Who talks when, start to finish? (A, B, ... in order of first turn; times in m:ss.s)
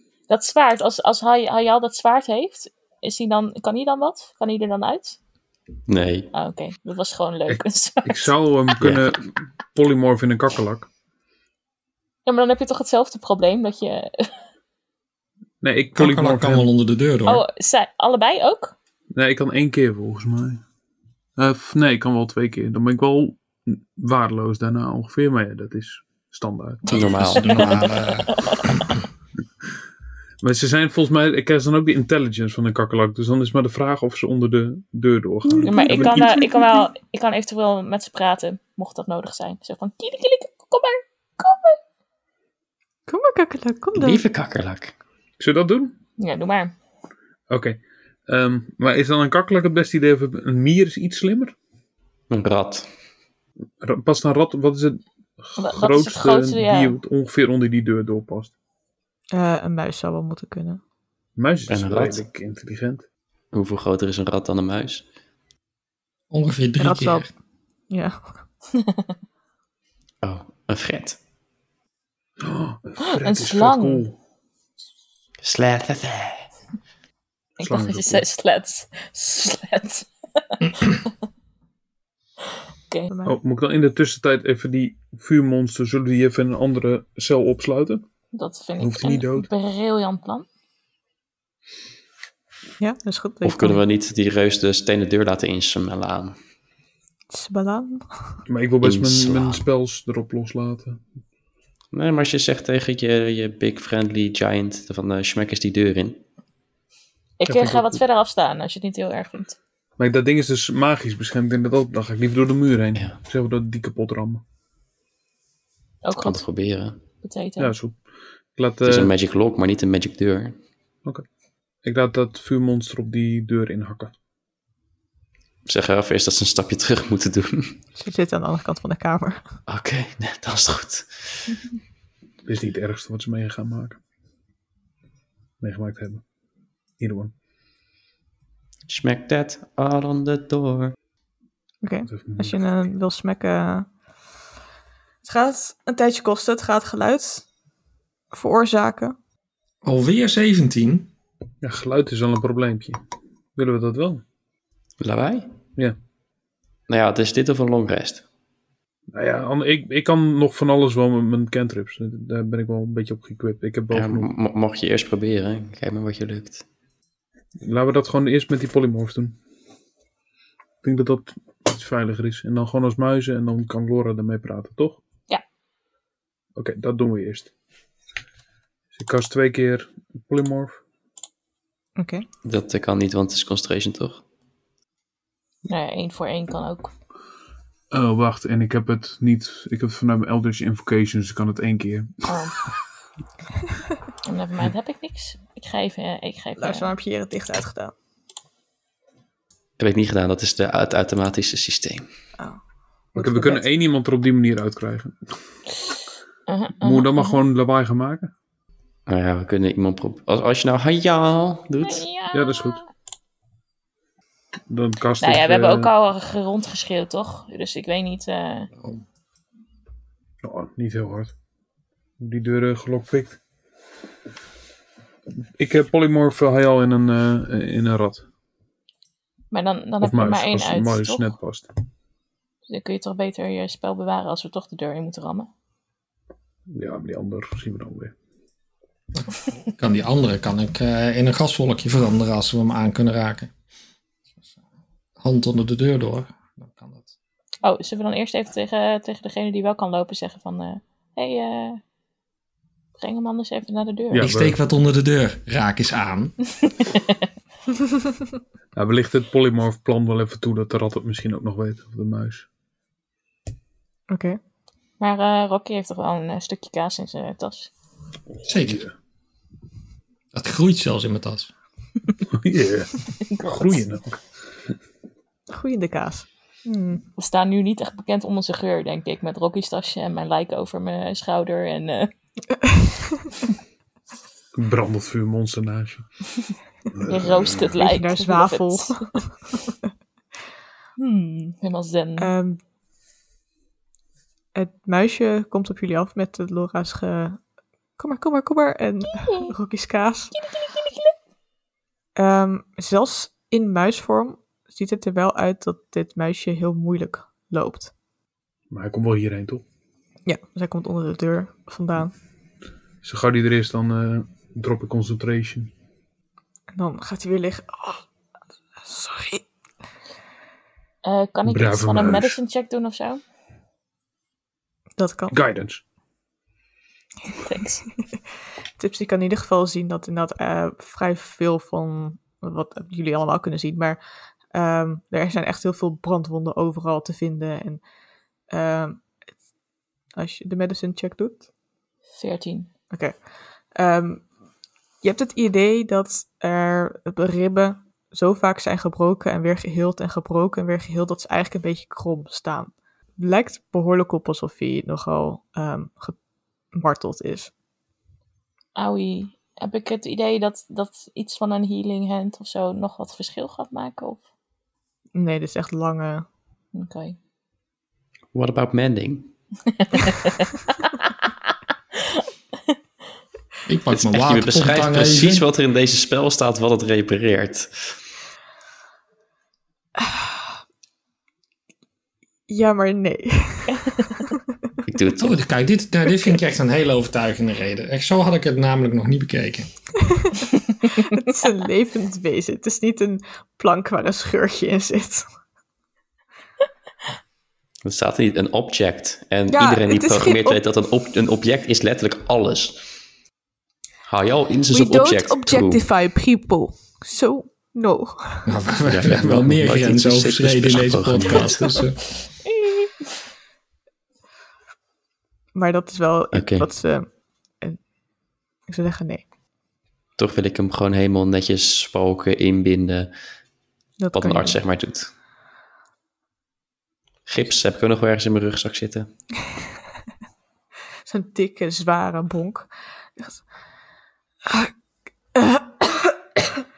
0:00.3-0:05.2 A
0:05.9-0:06.3 B
0:06.3-0:08.3 A
0:07.5-0:10.9 C
0:12.2-0:14.4 A
0:15.6-0:16.7 C
0:15.9-0:17.4 D
0:17.2-0:18.7 A
0:19.1-0:20.6 C
0:21.4-0:27.1 C
0:26.9-0:29.0 D
0:26.9-0:28.0 B
0:27.4-0:28.9 A
0:30.4-0:36.4 C
0:35.6-0:41.8 A
0:43.1-0:44.2 E
0:43.9-0:44.9 B
0:45.4-0:45.9 C
0:46.2-0:46.7 A
0:47.5-0:51.5 C
0:52.3-0:52.9 B
0:53.8-0:58.5 C
0:55.6-0:57.0 A
0:59.3-1:00.8 E
1:01.4-1:03.0 C
1:01.7-1:02.2 B
1:03.5-1:05.0 B
1:06.3-1:07.3 D
1:06.8-1:07.3 E
1:07.9-1:08.2 E
1:08.8-1:09.0 A
1:10.2-1:11.2 B
1:12.4-1:14.2 C
1:13.0-1:14.0 A
1:15.4-1:16.5 B
1:17.6-1:18.2 C
1:17.6-1:21.1 A
1:23.1-1:23.4 E
1:23.2-1:28.0 C
1:28.3-1:30.4 A
1:28.8-1:29.5 C
1:32.8-1:33.8 E
1:33.4-1:36.4 B
1:37.3-1:38.4 E
1:38.5-1:41.0 C
1:38.8-1:39.6 B
1:41.9-1:46.2 B
1:47.4-1:49.6 A
1:47.5-1:48.0 C
1:50.0-1:54.4 C
1:56.0-1:56.4 A
1:56.2-1:57.0 B
1:57.2-1:57.7 A
1:57.6-1:58.0 C
1:58.5-1:59.1 C
1:58.8-2:00.6 B
2:01.8-2:04.1 C
2:05.6-2:07.8 B
2:08.0-2:09.4 E
2:09.7-2:11.4 B
2:12.4-2:14.0 C
2:15.6-2:16.2 C
2:17.0-2:17.3 C
2:18.9-2:20.9 B
2:21.8-2:23.9 E
2:22.1-2:22.6 C
2:25.2-2:27.5 E
2:28.3-2:29.2 E
2:29.8-2:31.1 D
2:31.6-2:33.0 C
2:33.6-2:34.2 C
2:35.0-2:35.5 B
2:36.9-2:38.2 B
2:39.1-2:44.3 C
2:43.9-2:46.6 B
2:47.6-2:49.4 C
2:50.8-2:55.0 C
2:56.6-2:57.5 C
2:58.9-3:00.8 C
3:02.0-3:02.2 E
3:02.4-3:04.2 B
3:05.6-3:06.9 A
3:07.9-3:12.3 C
3:12.3-3:12.6 A
3:14.2-3:16.9 A
3:16.6-3:17.9 E
3:19.8-3:22.0 B
3:23.1-3:23.6 E
3:23.2-3:25.2 C
3:26.5-3:27.4 A
3:26.8-3:28.3 C
3:29.1-3:32.0 B
3:31.8-3:32.9 A
3:32.3-3:32.8 C
3:34.7-3:35.9 C
3:35.2-3:38.7 A
3:38.8-3:39.0 D
3:40.4-3:41.3 C
3:42.2-3:43.4 C
3:45.6-3:48.2 C
3:49.5-3:51.3 A
3:50.0-3:51.7 C
3:52.7-3:55.5 A
3:56.7-3:58.1 C
3:59.2-4:03.5 D
4:05.2-4:07.1 D
4:07.6-4:11.8 A
4:13.0-4:14.3 A
4:14.1-4:14.6 C
4:14.2-4:16.3 D
4:16.6-4:17.2 A
4:18.7-4:22.5 C
4:24.1-4:24.4 E
4:25.0-4:27.7 A
4:28.3-4:28.9 C
4:28.4-4:28.9 D
4:30.3-4:31.5 D
4:32.3-4:34.2 C
4:33.3-4:33.8 A
4:35.5-4:37.0 E
4:37.2-4:42.1 A
4:42.5-4:43.2 E
4:44.5-4:46.1 C
4:46.9-4:47.6 C
4:47.1-4:49.0 A
4:47.8-4:49.4 E
4:51.0-4:52.3 A
4:52.2-4:52.6 E
4:54.5-4:57.4 E
4:58.0-5:00.4 E
5:00.4-5:01.1 A
5:02.2-5:07.9 E
5:08.7-5:09.6 C
5:10.2-5:12.1 E
5:13.0-5:15.7 C
5:16.7-5:18.0 E
5:18.8-5:19.4 E
5:21.0-5:23.2 A
5:21.4-5:22.4 C
5:25.0-5:25.4 E
5:25.3-5:25.8 C
5:27.3-5:27.8 A
5:28.8-5:34.0 E
5:34.5-5:37.8 E
5:38.5-5:39.0 E
5:40.1-5:41.4 E
5:42.2-5:42.7 A
5:42.9-5:43.2 E
5:43.7-5:44.3 E
5:45.0-5:56.2 E
5:56.7-5:57.5 E
5:58.8-6:04.2 A
6:05.1-6:06.2 E
6:06.7-6:07.2 A
6:08.3-6:09.3 B
6:09.8-6:11.3 A
6:12.1-6:12.7 A
6:13.7-6:15.4 D
6:13.9-6:17.9 B
6:20.0-6:20.4 E
6:22.5-6:24.4 E
6:24.8-6:25.4 B
6:25.2-6:29.7 D
6:30.0-6:35.3 E
6:37.8-6:42.8 B
6:39.5-6:40.6 E
6:44.0-6:45.8 B
6:44.7-6:48.5 E
6:48.4-6:52.0 D
6:48.9-6:51.8 B
6:52.5-6:52.9 A
6:55.5-6:57.8 E
6:56.3-6:56.7 B
6:58.7-6:59.2 E
7:00.2-7:03.1 B
7:04.0-7:04.6 E
7:04.1-7:05.1 B
7:07.2-7:09.1 B
7:11.0-7:13.4 E
7:14.5-7:14.7 E
7:15.3-7:16.2 E